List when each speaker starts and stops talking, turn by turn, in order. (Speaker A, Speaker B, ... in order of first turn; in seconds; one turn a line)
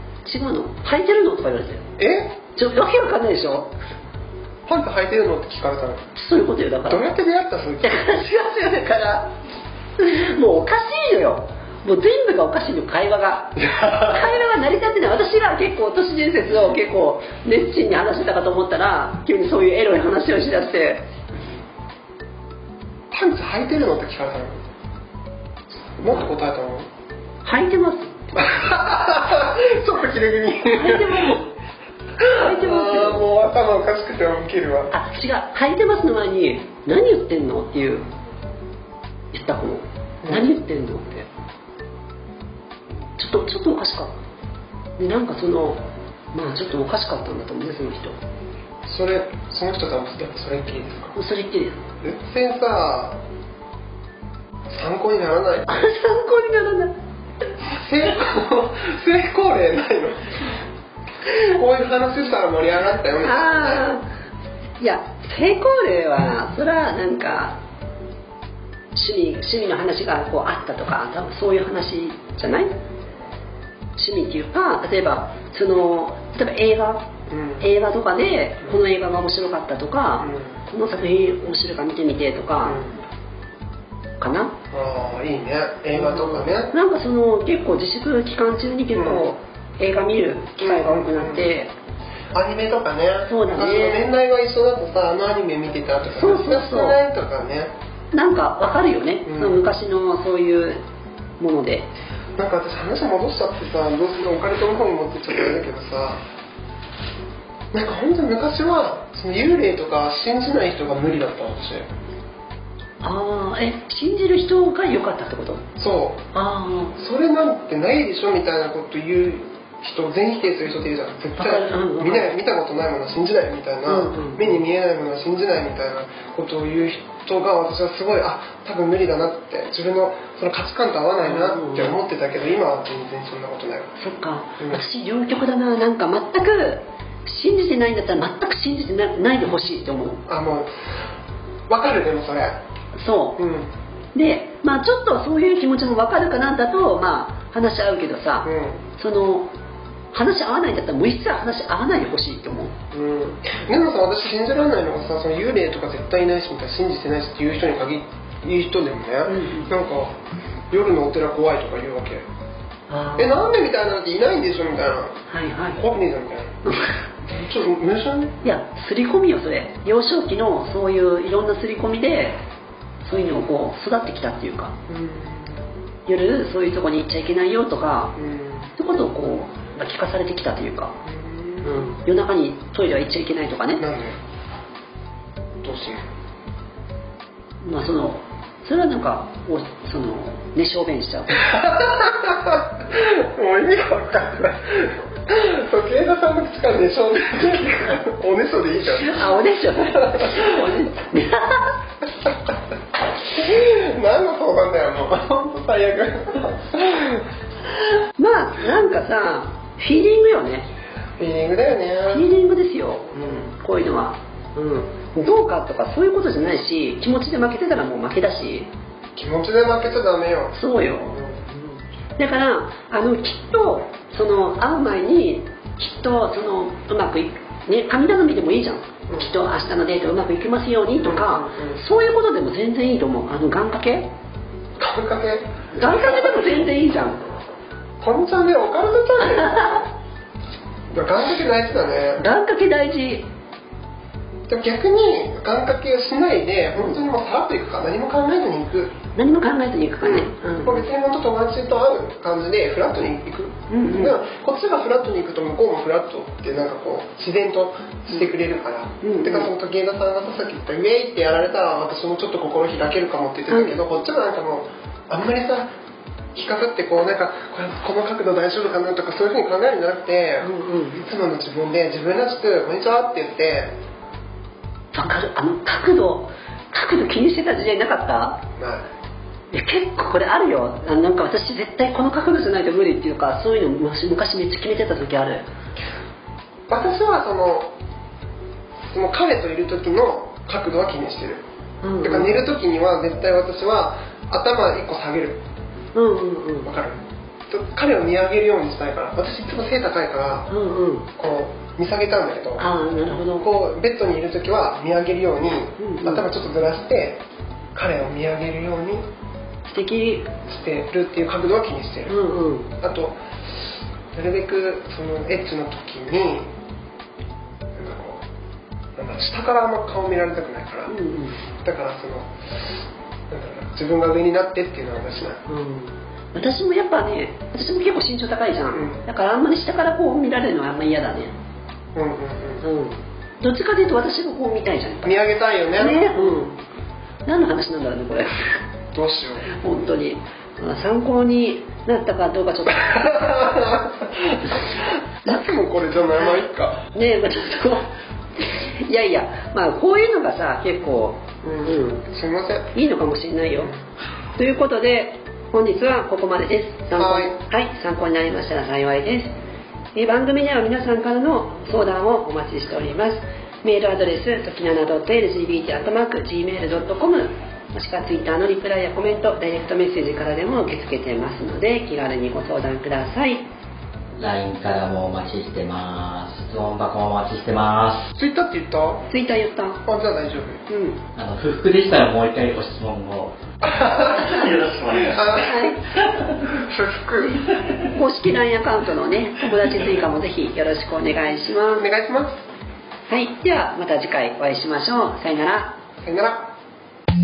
Speaker A: 0.2-1.9
Speaker B: 2.0-2.4
Speaker A: 2.5-3.7
Speaker B: 4.7-6.0
Speaker A: 6.2-7.1
Speaker B: 6.9-8.1
Speaker A: 7.8-9.3
Speaker A: 10.0-21.1
Speaker B: 13.6-14.4
Speaker B: 23.1-24.6
Speaker B: 26.0-26.9
Speaker A: 27.4-28.5
Speaker B: 28.4-31.4
Speaker A: 30.7-31.5
Speaker B: 32.2-34.9
Speaker A: 32.4-33.3
Speaker A: 34.9-38.1
Speaker A: 39.3-41.3
Speaker B: 40.2-40.5
Speaker A: 43.2-44.2
Speaker A: 45.0-48.1
Speaker B: 48.9-51.2
Speaker A: 51.1-51.8
Speaker B: 52.0-53.2
Speaker B: 54.7-55.9
Speaker A: 55.7-57.0
Speaker B: 57.6-60.4
Speaker B: 61.4-64.0
Speaker A: 63.2-64.0
Speaker A: 64.8-67.6
Speaker A: 68.9-72.7
Speaker A: 74.0-77.1
Speaker B: 77.3-77.7
Speaker A: 77.6-82.8
Speaker B: 80.2-80.6
Speaker B: 82.6-83.0
Speaker A: 84.2-84.5
Speaker B: 84.7-86.7
Speaker A: 86.0-91.7
Speaker B: 89.0-89.4
Speaker B: 90.6-91.5
Speaker B: 92.3-97.7
Speaker A: 93.3-94.1
Speaker A: 96.1-97.0
Speaker A: 98.1-100.8
Speaker B: 99.2-99.7
Speaker A: 101.4-101.9
Speaker B: 102.4-106.2
Speaker B: 107.7-111.9
Speaker A: 113.0-115.7
Speaker B: 115.8-116.2
Speaker A: 116.3-117.0
Speaker B: 117.0-133.9
Speaker A: 121.4-122.3
Speaker A: 123.9-124.6
Speaker A: 131.2-132.0
Speaker A: 134.0-140.2
Speaker B: 140.3-140.7
Speaker B: 141.7-142.6
Speaker A: 143.0-143.4
Speaker B: 143.4-143.7
Speaker A: 144.2-149.5
Speaker B: 148.4-148.8
Speaker A: 150.1-152.7
Speaker B: 152.9-160.2
Speaker A: 159.3-159.7
Speaker B: 160.7-162.2
Speaker A: 162.9-163.4
Speaker B: 163.2-165.2
Speaker A: 165.3-165.8
Speaker B: 165.8-166.6
Speaker A: 166.7-167.0
Speaker B: 167.2-168.4
Speaker A: 168.4-172.4
Speaker A: 173.1-174.8
Speaker B: 174.9-175.5
Speaker A: 176.1-178.2
Speaker B: 178.2-178.7
Speaker A: 178.8-181.0
Speaker B: 181.1-181.9
Speaker A: 181.6-183.8
Speaker B: 183.8-184.2
Speaker B: 185.6-186.1
Speaker A: 187.6-191.5
Speaker B: 191.3-200.5
Speaker A: 199.0-201.8
Speaker B: 203.3-207.2
Speaker A: 208.2-210.7
Speaker B: 211.2-212.3
Speaker A: 212.1-218.7
Speaker B: 213.2-213.4
Speaker B: 219.2-220.6
Speaker A: 220.5-234.1
Speaker B: 221.1-221.4
Speaker B: 231.0-231.8
Speaker B: 234.8-236.6
Speaker A: 235.8-237.2
Speaker B: 238.0-239.9
Speaker A: 239.3-239.8
Speaker B: 240.9-242.3
Speaker A: 242.2-243.3
Speaker B: 244.5-248.9
Speaker A: 249.2-250.8
Speaker B: 250.0-265.7
Speaker A: 253.7-254.2
Speaker A: 259.0-259.5
Speaker A: 263.5-263.8
Speaker B: 266.4-273.7
Speaker A: 270.4-271.0
Speaker A: 274.9-278.4
Speaker B: 278.6-278.9
Speaker A: 279.5-285.5
Speaker B: 286.7-287.7
Speaker B: 288.9-291.4
Speaker A: 291.8-292.4
Speaker B: 292.0-295.4
Speaker A: 295.9-296.7
Speaker B: 296.6-300.5
Speaker A: 300.5-301.1
Speaker B: 301.2-307.2
Speaker A: 302.6-303.5
Speaker A: 305.8-306.3
Speaker B: 307.8-309.1
Speaker A: 309.7-310.3
Speaker B: 310.4-312.2
Speaker A: 312.1-312.7
Speaker B: 312.8-313.2
Speaker B: 314.1-316.5
Speaker B: 317.8-318.2
Speaker B: 319.0-320.9
Speaker A: 320.9-321.4
Speaker B: 321.6-325.4
Speaker A: 325.5-331.3
Speaker B: 328.7-329.0
Speaker B: 331.9-332.6
Speaker A: 332.6-335.2
Speaker B: 335.0-336.5
Speaker A: 335.7-336.6
Speaker A: 337.3-338.6
Speaker B: 338.9-339.5
Speaker A: 339.5-343.7
Speaker B: 342.9-346.9
Speaker A: 346.9-352.1
Speaker B: 351.4-352.7
Speaker A: 352.7-353.7
Speaker A: 354.4-359.3
Speaker B: 356.9-357.4
Speaker A: 359.9-373.5
Speaker C: 374.2-378.1
Speaker B: 378.1-379.1
Speaker A: 379.1-379.8
Speaker B: 379.9-380.7
Speaker A: 380.7-381.0
Speaker C: 381.2-385.3
Speaker B: 383.6-385.7
Speaker A: 384.1-384.5
Speaker A: 385.2-385.8
Speaker B: 386.4-387.7
Speaker A: 387.4-391.9
Speaker B: 391.8-392.4
Speaker A: 393.1-395.8
Speaker B: 396.0-396.5